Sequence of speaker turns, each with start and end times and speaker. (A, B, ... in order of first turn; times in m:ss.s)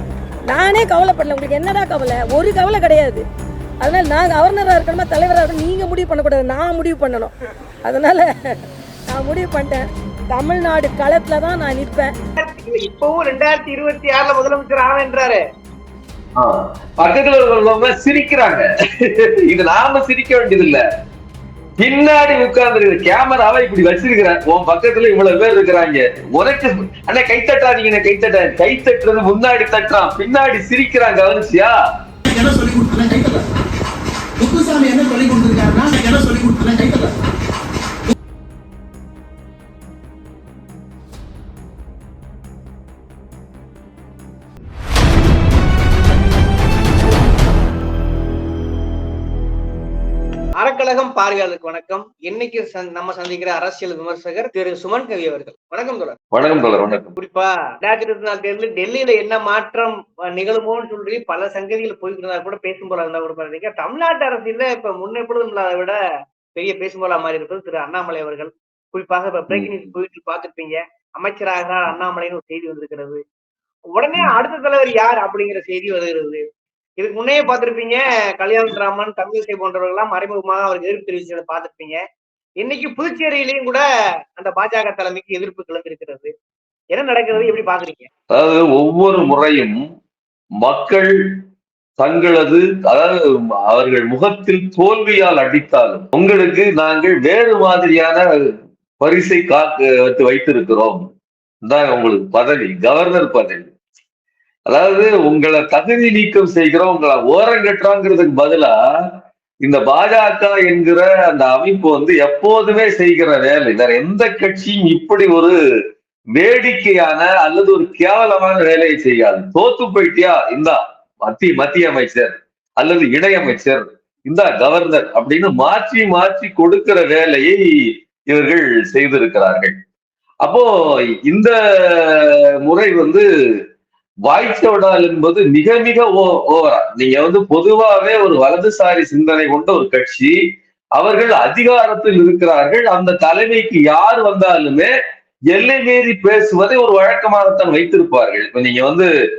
0:00.5-0:03.2 A
0:03.8-0:07.3 A
0:07.8-0:08.6 A
0:09.1-0:12.1 A
0:12.4-0:15.4 B
0:16.4-0:20.8 C
0:21.8-0:31.7 C
0:32.3-0:33.5 D
0:34.4-0:37.1 D
0:50.6-0:56.2 B
0:56.3-0:57.2 C
0:57.2-1:06.0 B
1:06.5-1:13.2 B
1:13.9-1:16.4 B
1:17.0-1:22.0 B
1:22.6-1:23.8 B
1:24.4-1:26.3 B
1:26.9-1:28.1 B
1:28.3-1:29.8 C
1:30.6-1:31.4 C
1:32.0-1:33.2 C
1:33.7-1:38.2 C
1:39.0-1:41.0 C
1:41.7-1:43.7 C
1:44.7-1:48.7 C
1:49.6-1:55.6 C
1:56.4-2:07.6 C
2:08.3-2:09.8 C
2:11.2-2:13.2 C
2:14.3-2:20.4 C
2:21.0-2:24.9 C
2:25.5-2:29.1 C